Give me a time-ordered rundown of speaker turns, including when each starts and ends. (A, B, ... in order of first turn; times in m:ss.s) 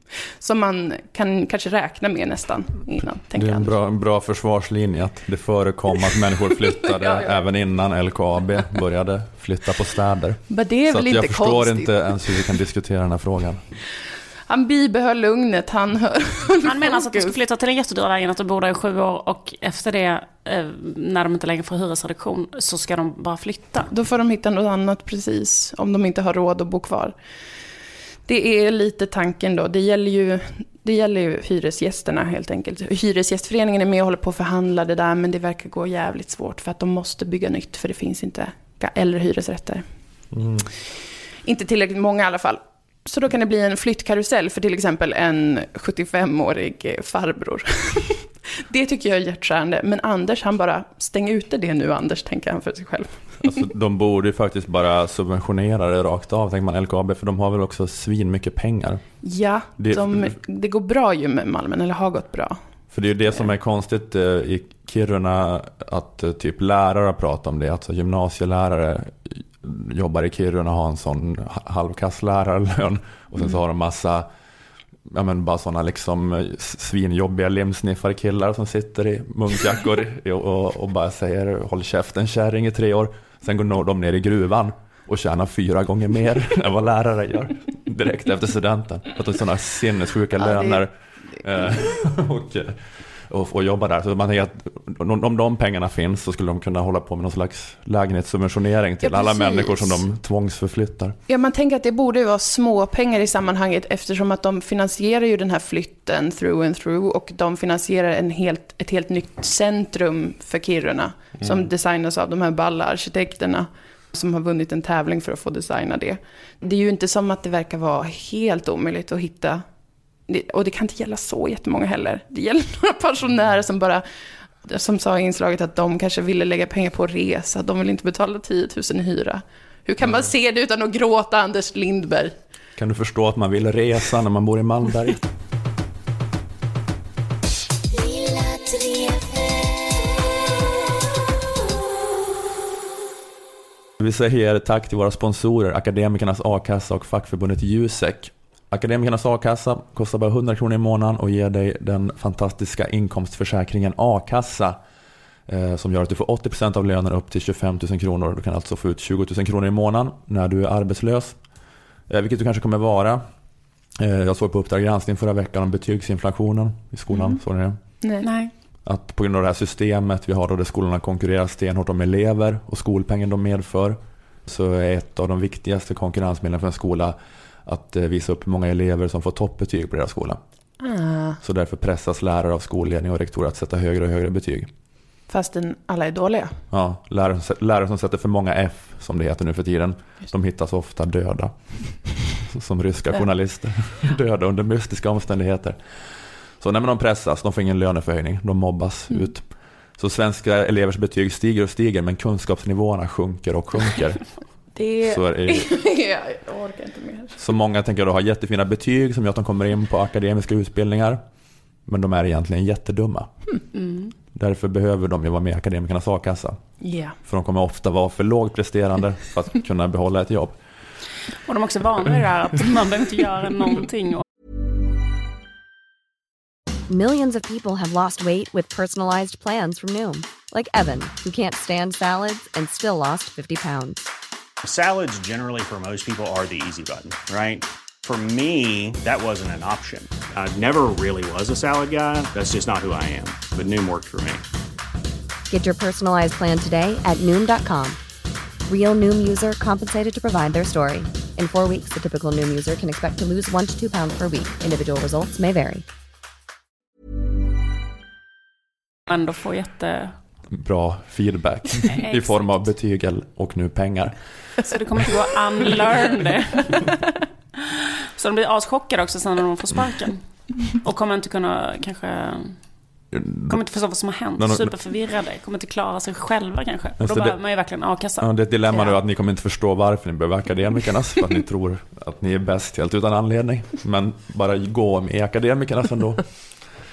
0:00.4-0:03.7 A
0:03.3-0:13.6 B
0:06.8-0:07.4 A
0:10.5-0:12.2 A
0:14.5-0:17.3 A
0:16.6-0:23.9 C
0:23.9-0:27.1 A
0:28.3-0:39.8 A
0:40.3-0:40.7 B
0:41.4-0:53.6 A
0:53.4-0:59.0 B
0:59.2-1:02.6 A
0:59.8-1:00.3 B
1:02.9-1:14.3 B
1:15.1-1:41.2 B
1:30.4-1:30.8 A
1:39.0-1:40.0 A
1:41.3-1:59.6 A
2:00.3-2:04.0 A
2:04.6-2:12.3 A
2:10.0-2:10.3 B
2:12.8-2:15.2 B
2:24.0-2:34.8 B
2:35.5-2:41.4 B
2:42.1-2:43.2 B
2:44.0-2:47.8 B
2:48.2-2:48.5 C
2:48.8-3:00.4 B
3:00.8-3:01.4 A
3:01.4-3:04.7 B
3:05.3-3:06.6 A
3:06.7-3:16.0 B
3:16.6-3:24.2 B
3:24.7-3:27.4 A
3:25.0-3:25.7 B
3:27.4-3:31.2 B
3:31.8-3:33.3 B
3:33.7-3:34.1 C
3:34.3-3:36.6 B
3:36.8-3:37.1 A
3:37.2-3:40.6 B
3:41.5-3:44.2 C
3:46.9-3:54.1 D
3:54.6-4:04.4 E
4:05.5-4:08.0 D
4:08.7-4:15.8 D
4:19.1-4:20.2 C
4:20.5-4:24.2 B
4:21.9-4:22.6 C
4:24.6-4:26.9 C
4:27.6-4:32.6 C
4:33.1-4:33.6 B
4:33.5-4:38.9 C
4:34.4-4:34.7 B
4:37.0-4:37.4 B
4:38.2-4:46.3 B